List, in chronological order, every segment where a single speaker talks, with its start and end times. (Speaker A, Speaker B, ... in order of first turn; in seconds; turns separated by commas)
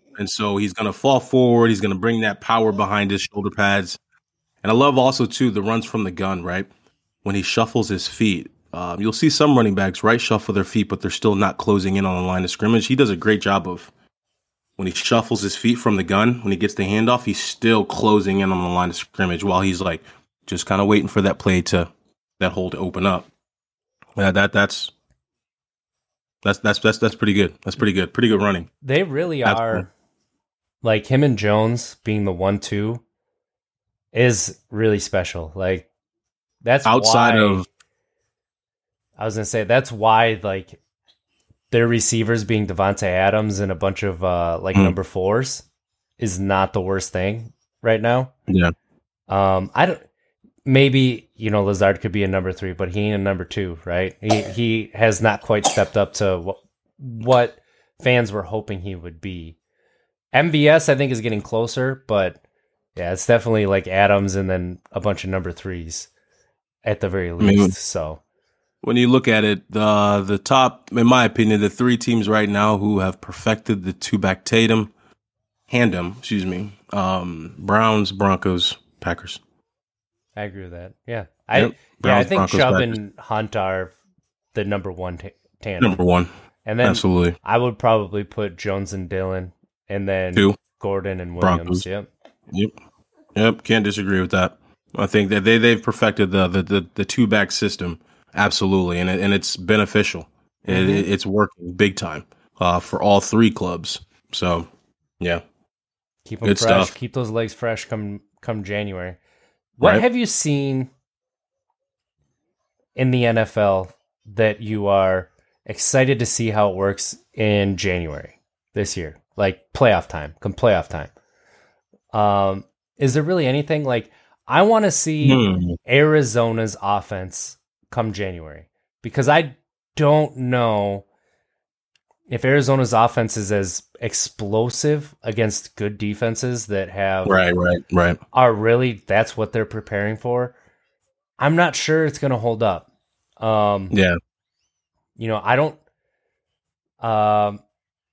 Speaker A: 0.1-4.0, Speaker A: 4.6-6.7, Speaker A: 7.2-13.9, Speaker A: 14.8-23.3, Speaker A: 24.1-24.9, Speaker A: 26.4-28.7, Speaker B: 28.8-29.9, Speaker A: 29.4-29.8, Speaker B: 30.8-33.0, Speaker B: 34.1-35.9, Speaker B: 36.6-37.6, Speaker A: 36.8-37.6, Speaker B: 39.2-40.8, Speaker B: 41.7-45.6, Speaker B: 46.2-48.3, Speaker A: 48.5-48.7, Speaker B: 49.3-50.0, Speaker B: 50.6-59.6, Speaker B: 60.3-62.4, Speaker B: 63.0-66.1, Speaker B: 66.8-68.2, Speaker A: 67.4-67.7, Speaker A: 68.8-74.9, Speaker A: 75.7-79.4, Speaker B: 80.3-83.9, Speaker A: 81.5-83.0, Speaker B: 84.5-86.0, Speaker A: 85.8-86.3, Speaker B: 86.6-92.1, Speaker A: 86.8-87.3, Speaker A: 91.4-91.8, Speaker A: 93.3-104.7, Speaker B: 100.7-101.1, Speaker B: 106.2-109.2, Speaker A: 106.4-106.9, Speaker B: 109.8-110.9, Speaker B: 113.0-121.1, Speaker B: 122.1-131.0, Speaker A: 125.2-125.8, Speaker B: 132.3-137.4, Speaker A: 137.2-138.2, Speaker B: 138.3-140.5, Speaker B: 141.4-142.9, Speaker B: 143.4-143.9, Speaker A: 143.9-144.2, Speaker B: 145.2-145.8, Speaker B: 147.0-147.6